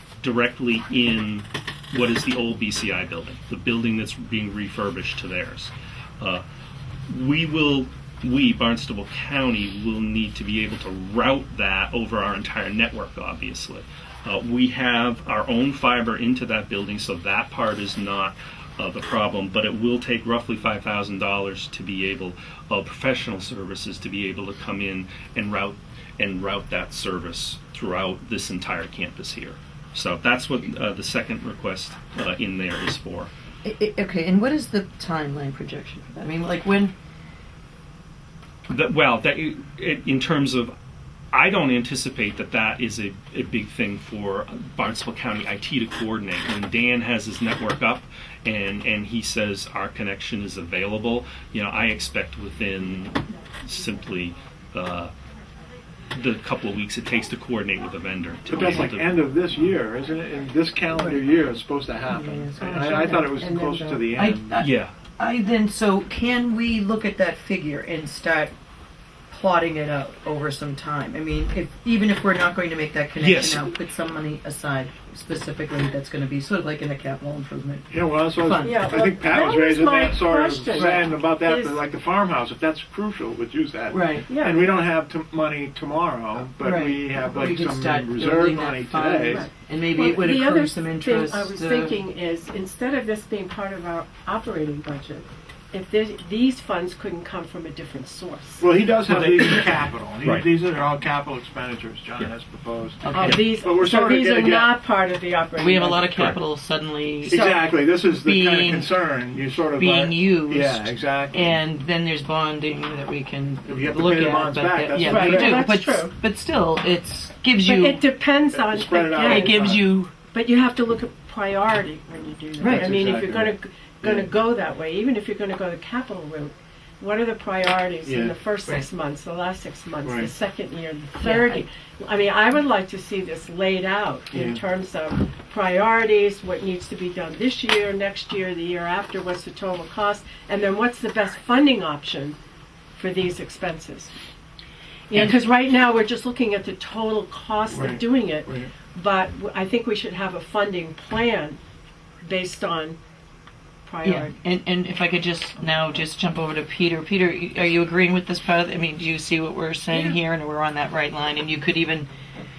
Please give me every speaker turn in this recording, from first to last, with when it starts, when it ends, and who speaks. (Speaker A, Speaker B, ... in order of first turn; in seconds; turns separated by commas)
Speaker A: 0.2-6.4, Speaker A: 7.1-33.3, Speaker B: 33.6-36.9, Speaker A: 38.7-40.7, Speaker A: 41.3-55.1, Speaker A: 56.1-59.2, Speaker C: 58.5-64.6, Speaker B: 62.1-63.3, Speaker D: 62.8-64.2, Speaker B: 64.2-68.5, Speaker A: 64.6-65.0, Speaker B: 69.3-78.9, Speaker A: 73.2-73.7, Speaker C: 77.9-89.5, Speaker D: 78.6-81.8, Speaker B: 80.7-81.0, Speaker B: 83.9-84.3, Speaker D: 84.3-84.7, Speaker B: 86.6-92.0, Speaker D: 89.3-98.7, Speaker C: 98.6-104.8, Speaker A: 99.1-100.5, Speaker B: 103.0-103.6, Speaker D: 103.1-106.3, Speaker B: 105.6-108.9, Speaker C: 106.1-106.4, Speaker C: 107.2-111.6, Speaker B: 109.8-118.0, Speaker C: 113.7-115.7, Speaker D: 115.0-116.1, Speaker D: 117.6-142.4, Speaker C: 118.5-119.9, Speaker B: 119.2-120.1, Speaker B: 122.6-123.0, Speaker C: 122.6-124.3, Speaker C: 128.1-128.3, Speaker C: 130.0-130.3, Speaker B: 131.2-131.7, Speaker C: 134.3-134.6, Speaker D: 143.0-144.1, Speaker D: 145.1-151.6, Speaker C: 147.7-148.7, Speaker D: 152.2-153.0, Speaker D: 153.8-154.3, Speaker B: 154.0-162.1